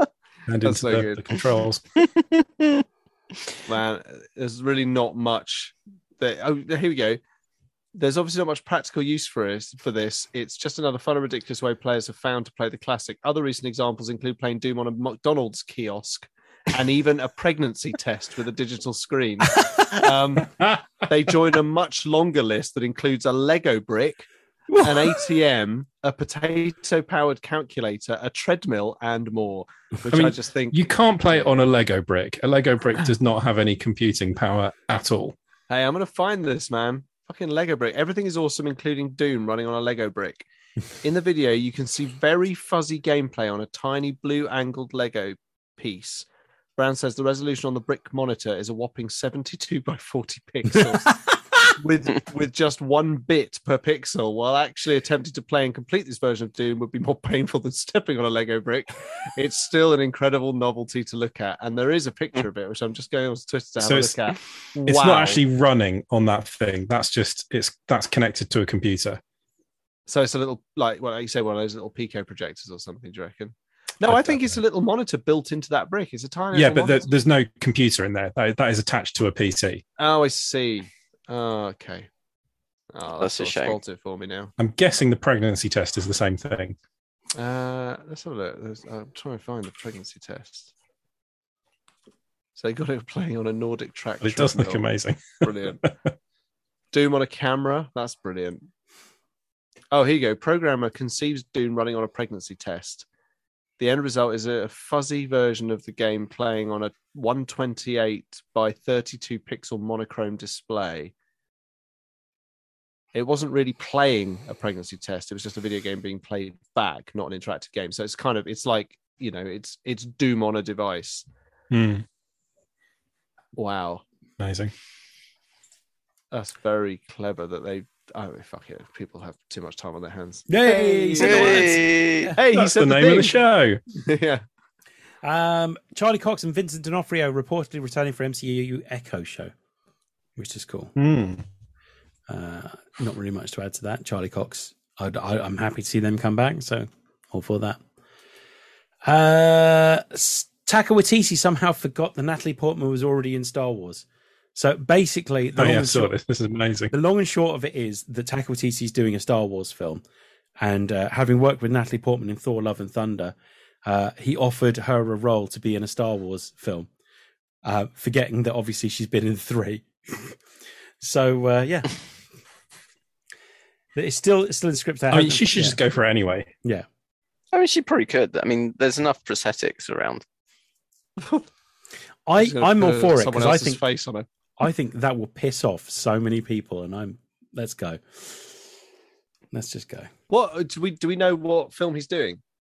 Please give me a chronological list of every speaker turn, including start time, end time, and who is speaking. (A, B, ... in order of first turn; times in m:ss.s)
0:00.5-0:02.0 A
0:00.6-0:01.2 B
0:02.2-0:02.8 C
0:03.6-0:07.2 B
0:07.9-0:24.3 B
0:24.7-0:25.2 D
0:24.8-0:30.8 B
0:30.1-0:35.4 A
0:35.7-0:40.4 B
0:41.0-0:46.2 B
0:46.8-0:51.2 B
0:50.7-0:51.7 D
0:51.8-1:05.4 B
1:03.8-1:04.2 A
1:04.9-1:09.2 A
1:10.1-1:17.1 B
1:14.0-1:14.6 A
1:16.5-1:19.8 A
1:20.0-1:22.1 B
1:22.9-1:24.5 B
1:23.2-1:23.8 C
1:24.6-1:26.8 A
1:27.3-1:30.7 B
1:32.6-1:34.8 B
1:34.2-1:36.1 A
1:35.4-1:35.8 B
1:36.9-1:38.6 B
1:39.9-1:43.0 B
1:43.8-1:51.1 B
1:53.1-2:01.2 B
2:01.7-2:02.0 A
2:03.6-2:04.0 B
2:04.4-2:04.7 A
2:06.3-2:11.7 B
2:10.5-2:12.4 D
2:11.2-2:12.3 C
2:12.3-2:13.4 B
2:12.5-2:13.8 A
2:13.9-2:14.4 B
2:15.2-2:19.5 D
2:20.4-2:20.9 D
2:21.0-2:21.4 A
2:22.3-2:27.8 D
2:29.0-2:36.1 D
2:35.6-2:36.9 A
2:36.9-2:40.0 D
2:40.6-2:46.9 D
2:47.6-2:50.4 D
2:51.0-2:51.9 D
2:53.9-2:55.8 D
2:55.1-2:56.5 A
2:57.5-3:00.2 C
3:01.2-3:01.4 B
3:02.2-3:03.8 D
3:02.4-3:04.2 B
3:04.6-3:08.6 D
3:09.5-3:10.1 D
3:10.3-3:12.4 B